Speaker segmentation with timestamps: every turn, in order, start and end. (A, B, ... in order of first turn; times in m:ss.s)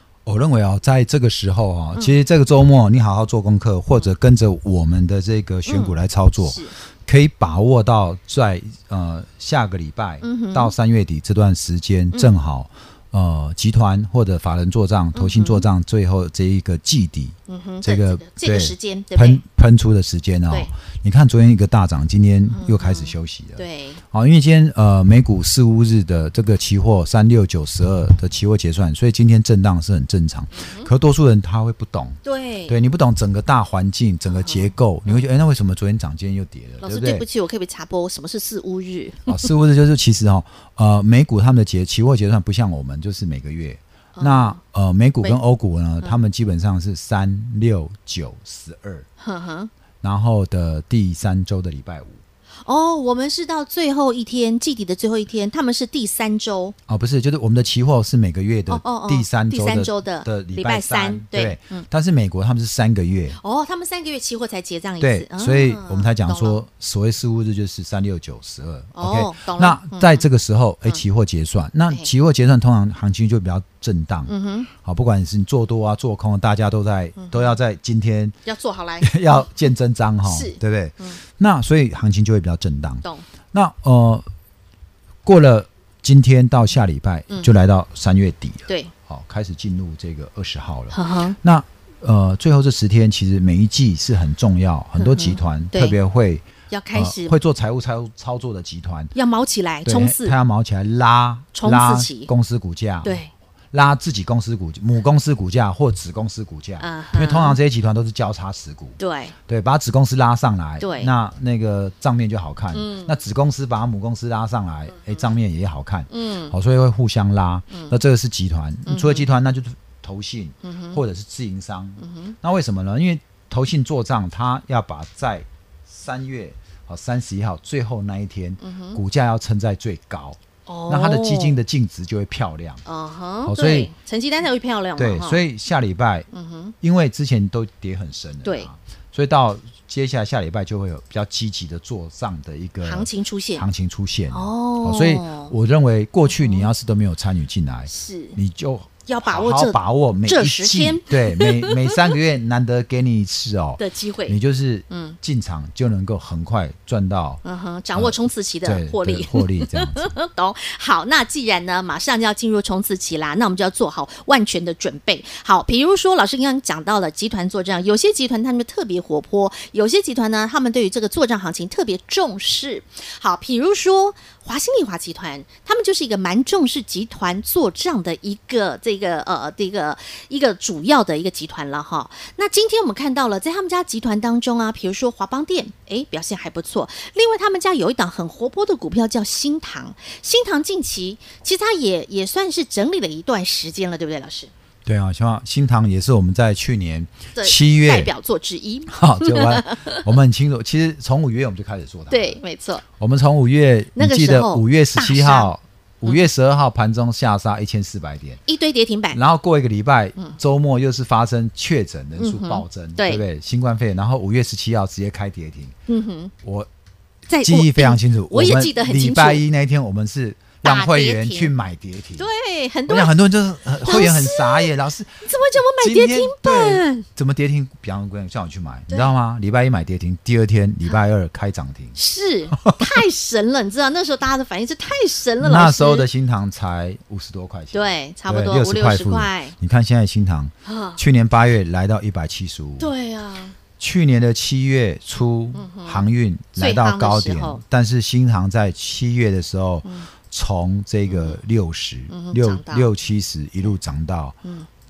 0:00.2-0:37.2 A
0:05.7-0:06.7 B
0:10.2-0:10.7 B
0:15.1-0:15.6 B
0:17.5-0:19.4 B
0:22.5-0:24.0 B
0:30.5-0:30.9 B
0:32.2-0:32.7 B
0:34.3-0:35.2 B
0:36.8-0:39.4 B
0:39.3-0:49.1 A
0:44.2-0:44.6 B
0:49.2-0:49.7 B
0:50.0-0:52.2 A
0:52.6-0:56.7 B
0:56.9-1:03.4 A
0:58.7-1:01.9 B
1:03.4-1:06.6 B
1:05.0-1:18.4 A
1:09.0-1:10.2 B
1:14.3-1:14.7 B
1:17.2-1:17.6 B
1:18.4-1:19.5 B
1:19.0-1:24.3 A
1:20.2-1:21.2 B
1:25.2-1:39.1 A
1:28.7-1:28.9 B
1:30.9-1:31.4 B
1:35.0-1:36.0 B
1:36.7-1:37.3 B
1:39.1-1:40.3 B
1:39.8-1:43.2 A
1:41.5-1:42.3 B
1:43.0-1:43.3 B
1:43.7-2:12.8 A
1:46.8-1:47.6 B
1:49.0-1:49.3 B
1:50.8-1:51.1 B
1:52.7-1:53.2 B
1:56.1-1:56.5 B
1:57.7-1:58.0 B
1:58.8-1:59.3 B
2:00.6-2:01.0 B
2:02.0-2:02.3 B
2:08.6-2:09.0 B
2:10.6-2:11.6 B
2:12.8-2:15.4 B
2:13.4-2:13.9 A
2:15.0-2:16.3 A
2:16.3-2:16.7 B
2:16.8-2:37.4 A
2:18.4-2:18.7 B
2:22.8-2:23.6 B
2:24.3-2:25.5 B
2:26.3-2:26.7 B
2:27.9-2:28.4 B
2:29.1-2:32.1 B
2:33.8-2:34.4 B
2:34.9-2:35.2 B
2:37.4-3:14.5 B
2:37.9-2:40.1 A
3:14.8-3:18.1 A
3:17.4-3:20.0 B
3:18.9-3:22.4 A
3:22.1-3:22.8 B
3:23.0-3:28.4 A
3:23.9-3:25.5 B
3:28.4-3:29.2 B
3:29.1-3:35.8 A
3:32.2-3:33.2 B
3:35.9-3:36.3 B
3:36.4-3:36.7 A
3:37.3-3:39.4 B
3:37.4-3:42.3 A
3:40.6-3:41.5 B
3:42.2-3:43.1 B
3:42.9-3:52.0 A
3:43.8-3:44.7 B
3:45.2-3:47.0 B
3:51.9-3:56.1 B
3:52.5-3:52.8 A
3:55.4-4:02.9 A
3:57.7-3:59.5 B
4:00.6-4:01.0 B
4:02.8-4:03.6 B
4:03.8-4:14.4 A
4:05.5-4:07.6 B
4:11.1-4:11.4 B
4:12.1-4:12.9 B